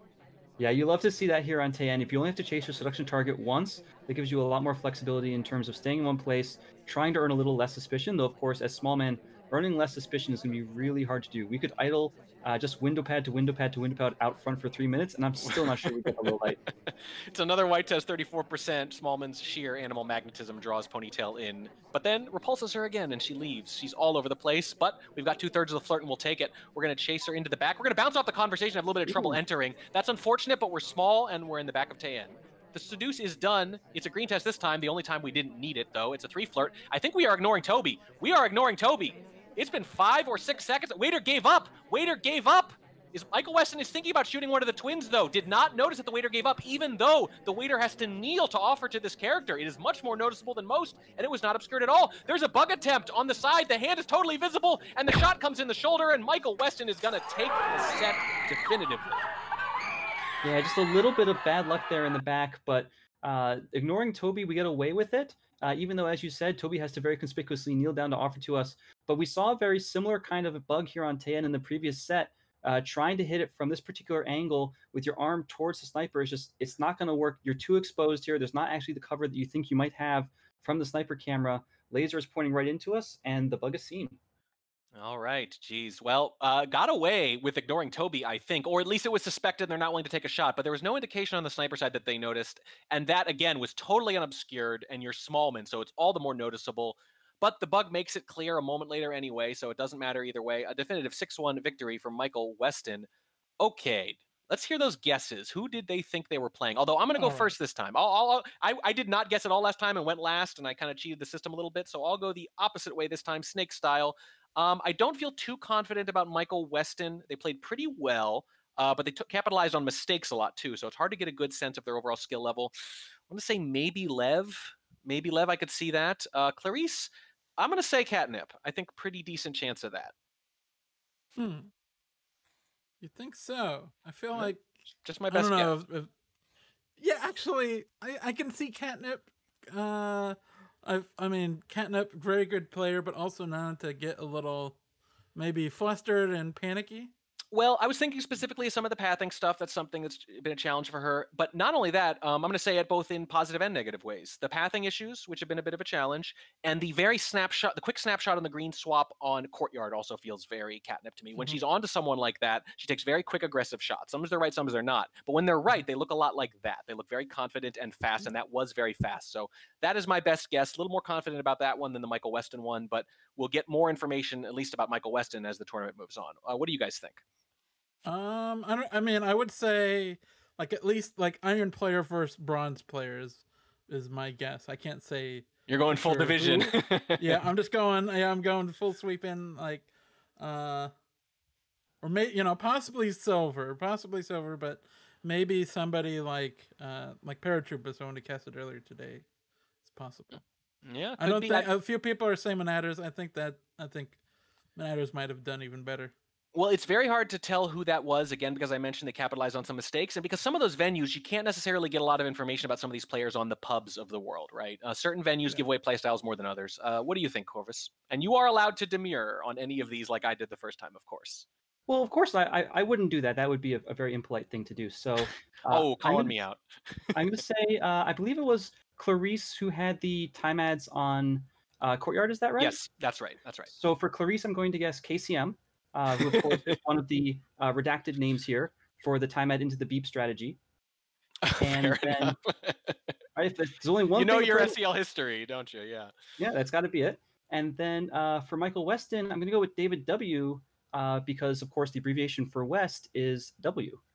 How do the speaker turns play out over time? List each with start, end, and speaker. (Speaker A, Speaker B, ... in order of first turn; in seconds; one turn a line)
Speaker A: 0.6-16.6
Speaker B: 15.5-16.3
Speaker B: 16.9-59.2
Speaker A: 29.1-29.4
Speaker A: 60.4-84.2
Speaker B: 84.9-103.1
Speaker B: 103.6-122.7
Speaker C: 107.2-107.5
Speaker B: 123.3-130.1
Speaker C: 131.4-131.7
Speaker C: 133.0-134.6
Speaker B: 135.0-135.7
Speaker C: 135.3-136.1
Speaker C: 137.0-144.8
Speaker C: 145.3-147.1
Speaker B: 147.5-177.2
Speaker C: 178.0-190.9
Speaker B: 185.7-187.4
Speaker C: 192.0-199.2
Speaker C: 199.8-200.4
Speaker B: 200.8-201.7
Speaker C: 201.2-204.2
Speaker C: 204.7-206.1
Speaker B: 206.5-221.4
Speaker A: 221.9-226.4
Speaker B: 225.7-227.2
Speaker A: 227.1-232.8
Speaker B: 232.6-233.7
Speaker A: 233.7-240.6
Speaker B: 236.2-236.8
Speaker B: 241.4-243.1
Speaker A: 241.6-242.4
Speaker A: 243.3-244.8
Speaker B: 244.1-246.1
Speaker A: 246.4-254.0